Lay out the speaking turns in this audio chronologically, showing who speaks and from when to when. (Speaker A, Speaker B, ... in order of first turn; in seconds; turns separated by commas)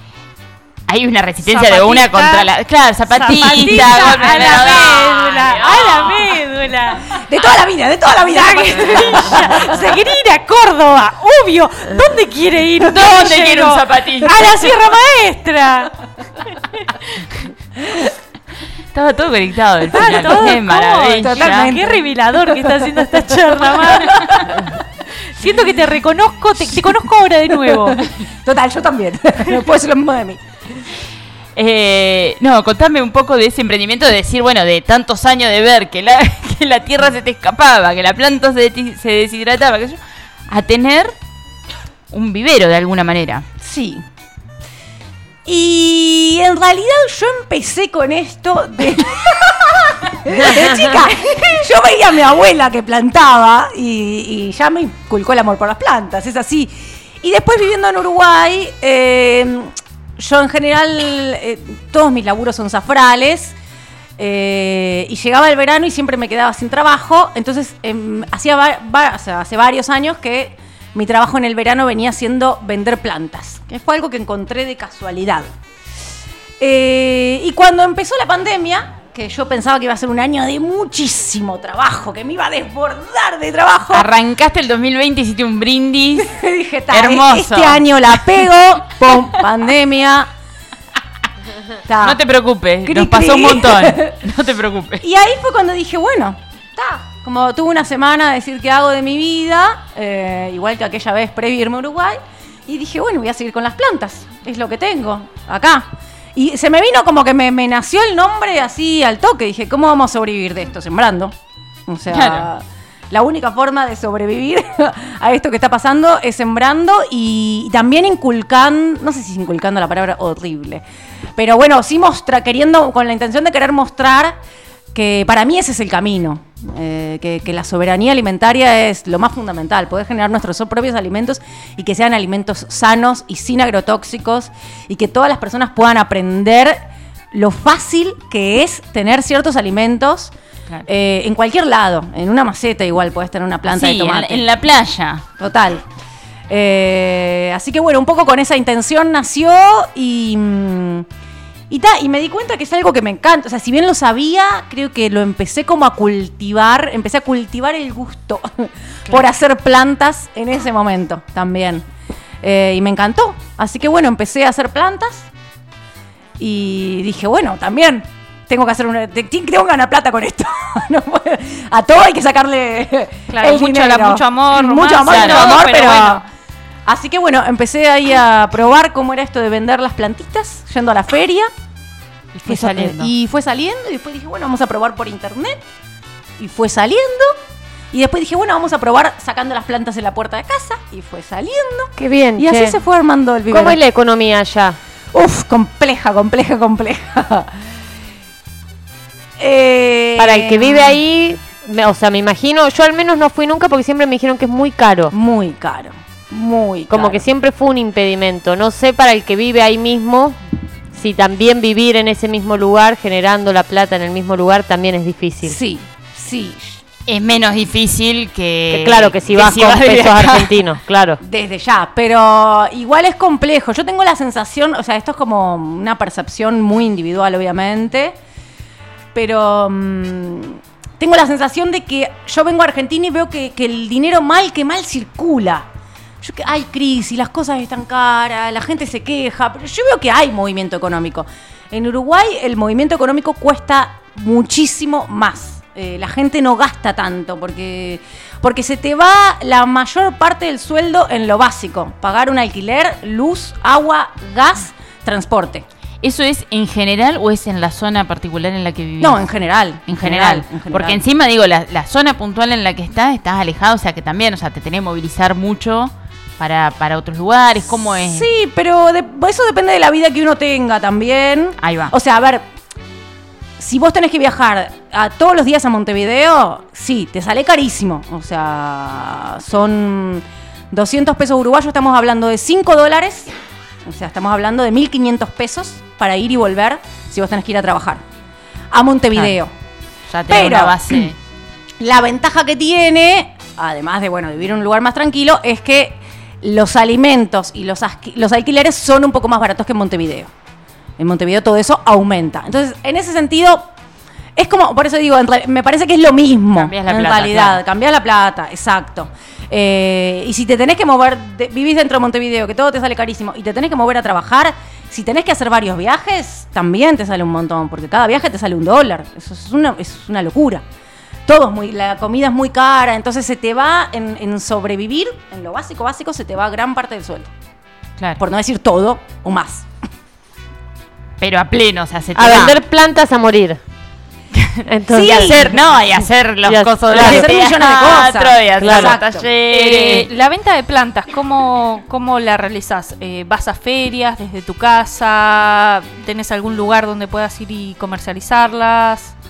Speaker A: 0.9-6.3, Speaker B: 1.4-2.5, Speaker B: 3.1-7.0, Speaker C: 3.6-5.0, Speaker C: 7.3-10.0, Speaker B: 8.3-15.9, Speaker A: 12.9-14.7, Speaker A: 18.9-21.8, Speaker B: 19.9-24.3, Speaker C: 20.0-20.6, Speaker C: 21.2-22.6, Speaker C: 23.8-24.7, Speaker A: 24.1-24.5, Speaker B: 25.3-28.0, Speaker C: 27.6-30.4, Speaker A: 31.6-41.1, Speaker A: 42.1-43.5, Speaker C: 43.6-44.0, Speaker C: 45.5-63.5, Speaker C: 64.2-75.5, Speaker C: 76.6-84.1, Speaker A: 83.9-86.3, Speaker C: 86.3-90.3, Speaker A: 86.9-88.4, Speaker C: 91.9-92.2, Speaker A: 92.0-95.0, Speaker C: 92.9-94.2, Speaker C: 95.0-111.3, Speaker C: 111.9-120.8, Speaker A: 112.1-112.5, Speaker C: 121.4-124.4, Speaker C: 124.9-136.8, Speaker C: 137.3-140.3, Speaker C: 140.9-144.4, Speaker A: 143.7-145.2, Speaker C: 145.4-145.9, Speaker C: 146.5-151.1, Speaker C: 151.7-161.8, Speaker C: 162.4-165.3, Speaker C: 166.4-176.2, Speaker B: 173.3-176.2, Speaker A: 175.0-175.8, Speaker C: 176.9-181.5, Speaker A: 182.4-183.1, Speaker C: 182.5-185.6, Speaker C: 186.4-187.4, Speaker C: 187.9-193.8, Speaker D: 192.0-192.8, Speaker D: 193.5-194.8, Speaker C: 195.1-197.6, Speaker C: 199.4-200.9, Speaker D: 200.2-205.1, Speaker C: 205.1-207.2, Speaker D: 206.9-210.4, Speaker D: 210.9-215.6, Speaker C: 215.4-216.8, Speaker A: 217.1-220.6, Speaker D: 218.7-221.2, Speaker C: 221.2-228.2, Speaker C: 229.1-235.7, Speaker C: 236.2-255.7, Speaker A: 256.0-259.2, Speaker C: 259.0-261.0, Speaker A: 259.9-268.3, Speaker C: 268.1-272.4, Speaker A: 271.6-271.9, Speaker C: 273.6-283.3, Speaker C: 283.9-288.0, Speaker C: 288.7-289.5, Speaker A: 290.1-291.2, Speaker C: 290.3-291.1, Speaker C: 291.8-300.3, Speaker C: 301.0-303.7, Speaker C: 304.4-320.6, Speaker A: 306.5-307.6, Speaker C: 321.3-327.3, Speaker C: 328.2-329.6, Speaker A: 331.2-332.6, Speaker D: 332.1-333.6, Speaker D: 334.7-335.6, Speaker C: 334.9-335.6, Speaker A: 335.1-340.1, Speaker D: 336.4-337.3, Speaker C: 336.9-339.3, Speaker D: 338.6-338.9, Speaker B: 339.5-349.1